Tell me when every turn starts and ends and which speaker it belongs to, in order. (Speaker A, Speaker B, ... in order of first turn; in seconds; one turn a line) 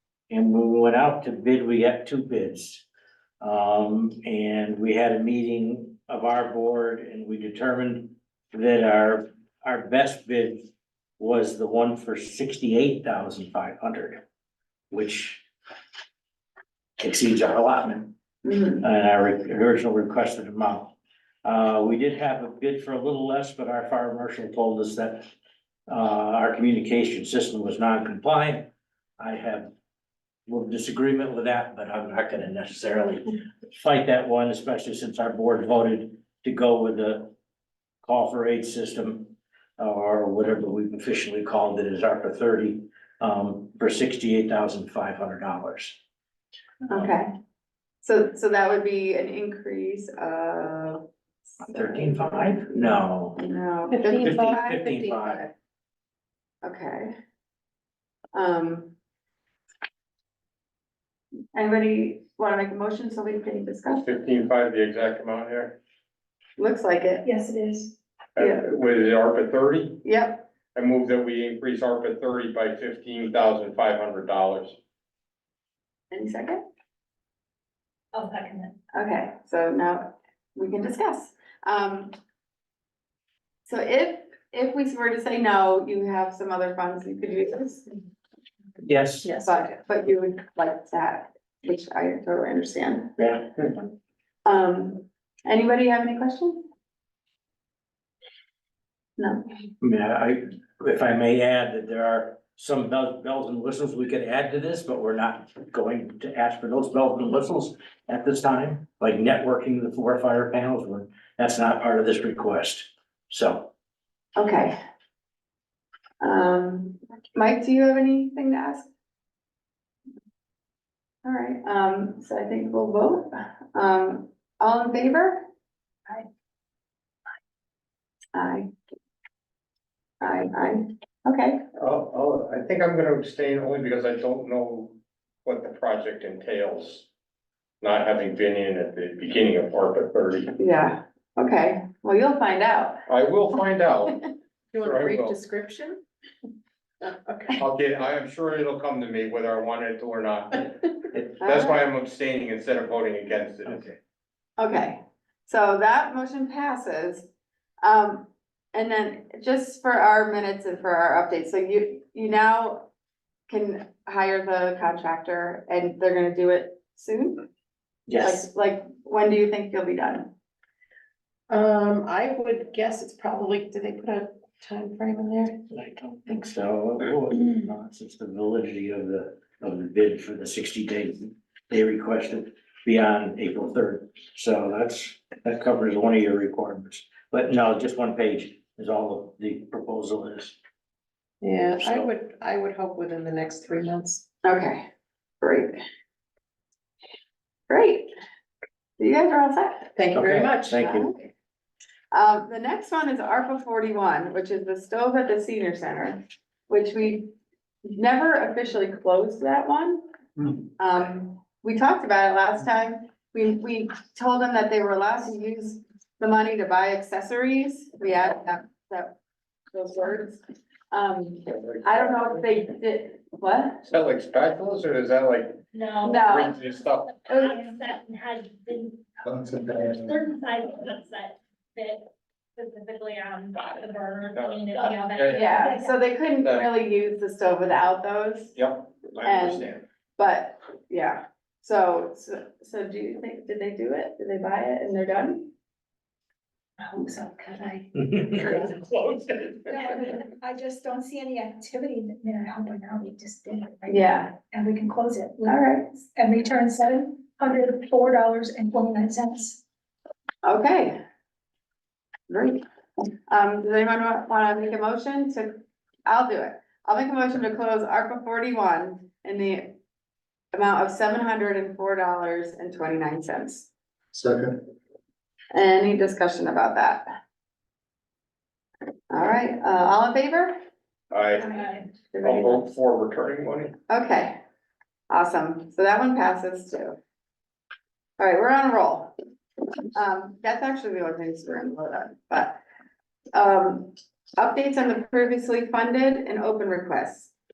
Speaker A: 0.3-2.8
Speaker A: 3.4-10.7
Speaker A: 11.2-14.2
Speaker A: 14.9-15.4
Speaker A: 17.0-18.1
Speaker B: 18.4-18.8
Speaker A: 18.8-25.3
Speaker A: 25.9-29.7
Speaker A: 30.5-37.3
Speaker A: 38.0-46.0
Speaker B: 46.9-47.3
Speaker B: 48.0-55.5
Speaker A: 51.6-53.4
Speaker C: 53.9-55.4
Speaker A: 54.2-55.4
Speaker B: 56.6-57.1
Speaker B: 58.3-58.9
Speaker B: 61.5-64.1
Speaker D: 63.9-65.8
Speaker B: 66.6-67.3
Speaker E: 67.2-68.0
Speaker D: 68.4-70.0
Speaker B: 68.4-68.7
Speaker B: 70.0-70.5
Speaker D: 70.7-74.8
Speaker B: 76.1-76.6
Speaker E: 78.1-78.7
Speaker B: 78.9-82.2
Speaker B: 83.7-87.8
Speaker A: 88.8-89.3
Speaker C: 89.2-89.6
Speaker B: 89.4-93.4
Speaker B: 94.5-96.7
Speaker B: 99.2-99.5
Speaker A: 99.8-113.7
Speaker B: 114.4-114.8
Speaker B: 116.2-118.9
Speaker B: 121.2-125.5
Speaker B: 128.3-128.7
Speaker B: 130.2-131.6
Speaker D: 131.8-137.1
Speaker D: 137.8-140.6
Speaker B: 140.6-143.0
Speaker D: 143.1-144.2
Speaker C: 144.7-146.0
Speaker D: 144.8-145.4
Speaker C: 147.0-147.6
Speaker D: 147.6-153.9
Speaker B: 151.4-151.8
Speaker A: 153.7-154.0
Speaker B: 154.6-157.3
Speaker B: 157.8-162.9
Speaker B: 163.5-167.5
Speaker A: 168.1-168.4
Speaker B: 168.2-170.3
Speaker C: 171.5-175.7
Speaker A: 175.7-190.6
Speaker C: 191.4-194.2
Speaker A: 191.8-192.1
Speaker B: 194.4-194.9
Speaker B: 195.4-195.8
Speaker B: 197.7-198.1
Speaker B: 199.0-200.0
Speaker C: 200.0-200.8
Speaker A: 200.1-201.1
Speaker B: 200.7-201.1
Speaker B: 202.1-207.3
Speaker B: 207.8-210.0
Speaker B: 210.8-219.2
Speaker B: 219.7-223.8
Speaker D: 221.5-222.2
Speaker D: 223.8-225.6
Speaker F: 225.7-226.2
Speaker B: 226.0-226.6
Speaker D: 226.1-227.2
Speaker B: 227.3-227.7
Speaker F: 227.3-235.9
Speaker C: 229.3-230.0
Speaker D: 234.3-235.5
Speaker B: 235.3-238.6
Speaker D: 236.4-236.7
Speaker D: 238.6-239.8
Speaker B: 239.2-245.5
Speaker E: 246.8-248.7
Speaker A: 248.2-248.6
Speaker E: 249.7-255.6
Speaker B: 253.9-254.3
Speaker B: 255.5-255.9
Speaker E: 256.1-259.6
Speaker B: 260.4-261.0
Speaker B: 262.3-262.6
Speaker B: 263.3-265.5
Speaker B: 266.1-269.8
Speaker B: 270.5-273.7
Speaker C: 274.1-274.5
Speaker B: 275.5-277.1
Speaker B: 279.1-280.6
Speaker D: 281.1-281.6
Speaker B: 282.1-282.7
Speaker D: 282.2-283.8
Speaker B: 283.9-284.4
Speaker B: 285.1-287.0
Speaker B: 288.2-289.1
Speaker B: 289.9-292.6
Speaker B: 293.3-297.3